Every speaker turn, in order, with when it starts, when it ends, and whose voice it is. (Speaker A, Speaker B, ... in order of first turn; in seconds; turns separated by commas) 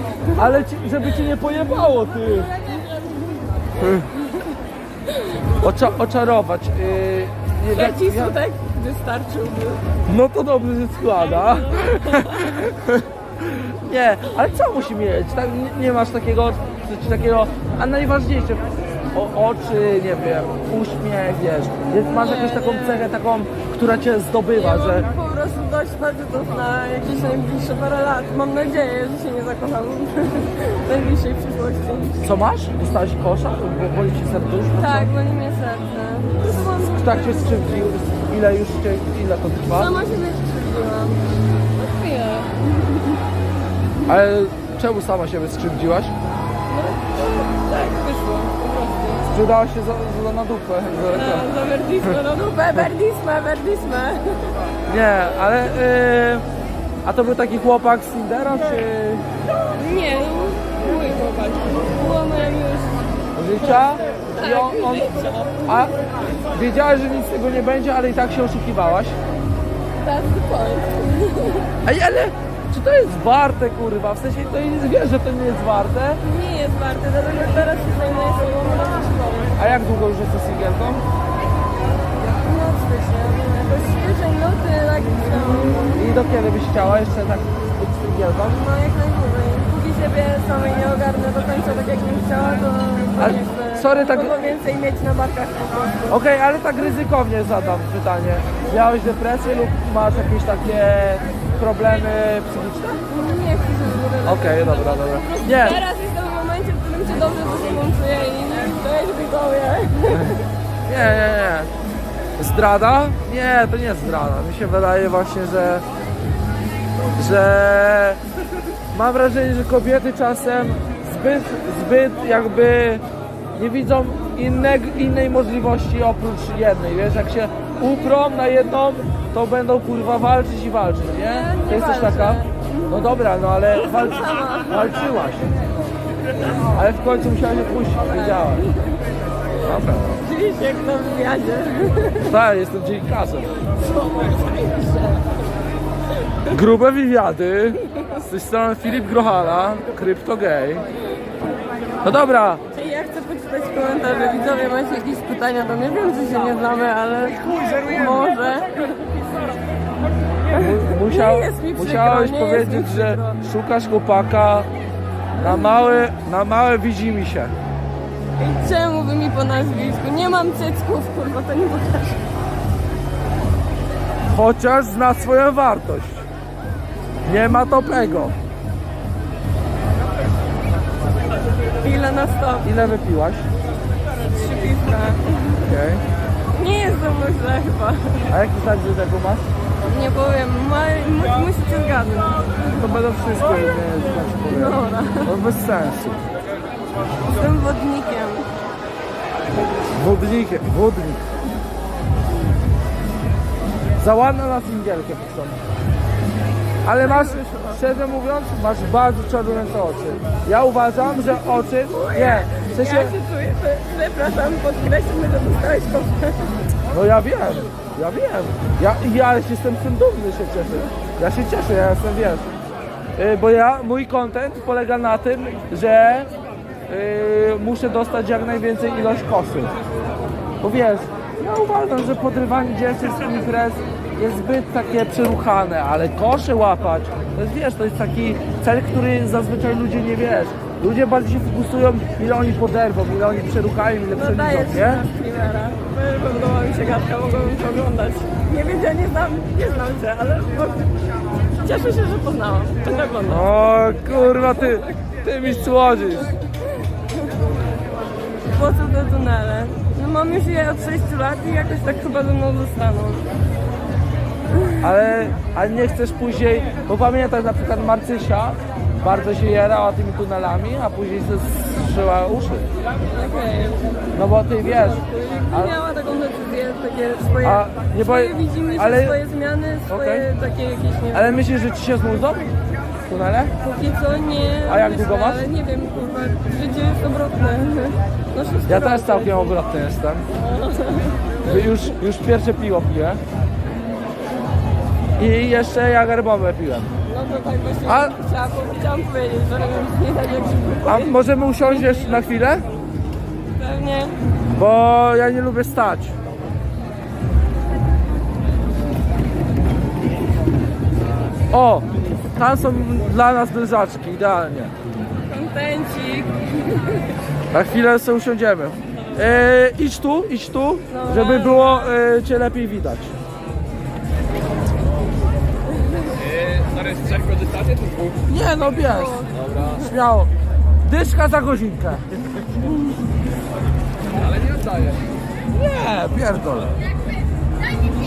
Speaker A: 0.3-2.5, Speaker B: 2.3-3.4, Speaker A: 3.8-4.1, Speaker B: 5.1-5.5, Speaker A: 5.6-8.3, Speaker B: 7.7-9.8, Speaker A: 10.1-25.1, Speaker B: 11.8-12.5, Speaker B: 22.0-23.1, Speaker B: 24.5-32.2, Speaker A: 32.2-35.1, Speaker B: 34.8-37.8, Speaker A: 36.8-39.9, Speaker B: 39.7-43.1, Speaker A: 44.1-46.1, Speaker B: 46.7-49.3, Speaker A: 49.3-51.5, Speaker B: 51.1-54.5, Speaker A: 54.9-56.5, Speaker A: 57.0-59.3, Speaker B: 59.8-65.7, Speaker A: 63.4-65.9, Speaker A: 66.5-69.2, Speaker B: 70.0-71.7, Speaker A: 71.8-76.2, Speaker B: 76.2-79.8, Speaker A: 79.6-81.0, Speaker B: 82.2-86.0, Speaker A: 86.0-88.6, Speaker B: 88.5-96.2, Speaker A: 93.2-94.3, Speaker A: 96.1-103.0, Speaker B: 103.1-110.4, Speaker A: 104.2-105.8, Speaker A: 110.9-111.7, Speaker A: 112.4-115.8, Speaker A: 117.2-118.2, Speaker A: 118.9-135.5, Speaker B: 131.2-133.0, Speaker B: 133.8-134.9, Speaker A: 136.6-138.7, Speaker A: 139.6-140.2, Speaker B: 140.2-142.3, Speaker A: 142.3-143.5, Speaker B: 143.8-145.2, Speaker A: 146.5-150.9, Speaker A: 152.0-152.6, Speaker B: 152.7-159.0, Speaker A: 157.4-158.3, Speaker A: 160.5-164.7, Speaker B: 160.5-163.4, Speaker A: 165.4-167.5, Speaker B: 165.4-165.7, Speaker B: 168.4-172.2, Speaker A: 174.3-176.2, Speaker A: 177.3-178.3, Speaker B: 181.8-182.7, Speaker A: 182.6-183.5, Speaker B: 184.3-185.6, Speaker A: 185.6-186.0, Speaker B: 186.5-188.3, Speaker A: 188.3-189.5, Speaker B: 189.9-192.8, Speaker A: 192.8-196.2, Speaker B: 194.5-195.3, Speaker B: 197.2-198.5, Speaker A: 199.9-201.3, Speaker A: 204.0-205.6, Speaker A: 206.8-213.2, Speaker B: 207.0-207.8, Speaker B: 211.3-216.5, Speaker A: 216.9-222.6, Speaker A: 223.2-226.3, Speaker A: 226.9-229.7, Speaker A: 230.6-245.0, Speaker B: 244.1-250.9, Speaker B: 251.6-253.5, Speaker A: 253.3-256.3, Speaker B: 254.6-254.8, Speaker B: 258.5-263.2, Speaker A: 264.8-272.7, Speaker B: 273.1-273.9, Speaker A: 274.1-275.8, Speaker B: 274.6-281.4, Speaker A: 277.4-279.2, Speaker A: 279.9-280.3, Speaker A: 281.1-282.5, Speaker A: 283.1-283.5, Speaker B: 283.6-289.6, Speaker A: 284.7-285.4, Speaker A: 288.7-290.3, Speaker B: 290.4-291.3, Speaker A: 291.4-293.2, Speaker A: 295.2-296.9, Speaker B: 297.1-302.2, Speaker A: 297.9-298.1, Speaker A: 300.9-302.6, Speaker B: 303.6-304.2, Speaker A: 304.5-306.2, Speaker A: 311.5-314.7, Speaker B: 315.3-317.0, Speaker A: 317.5-323.1, Speaker B: 320.9-321.9, Speaker C: 326.1-328.3, Speaker A: 328.3-329.2, Speaker B: 328.9-329.3, Speaker C: 329.3-329.9, Speaker A: 329.8-330.3, Speaker A: 330.8-332.0, Speaker C: 334.1-335.1, Speaker A: 335.5-336.7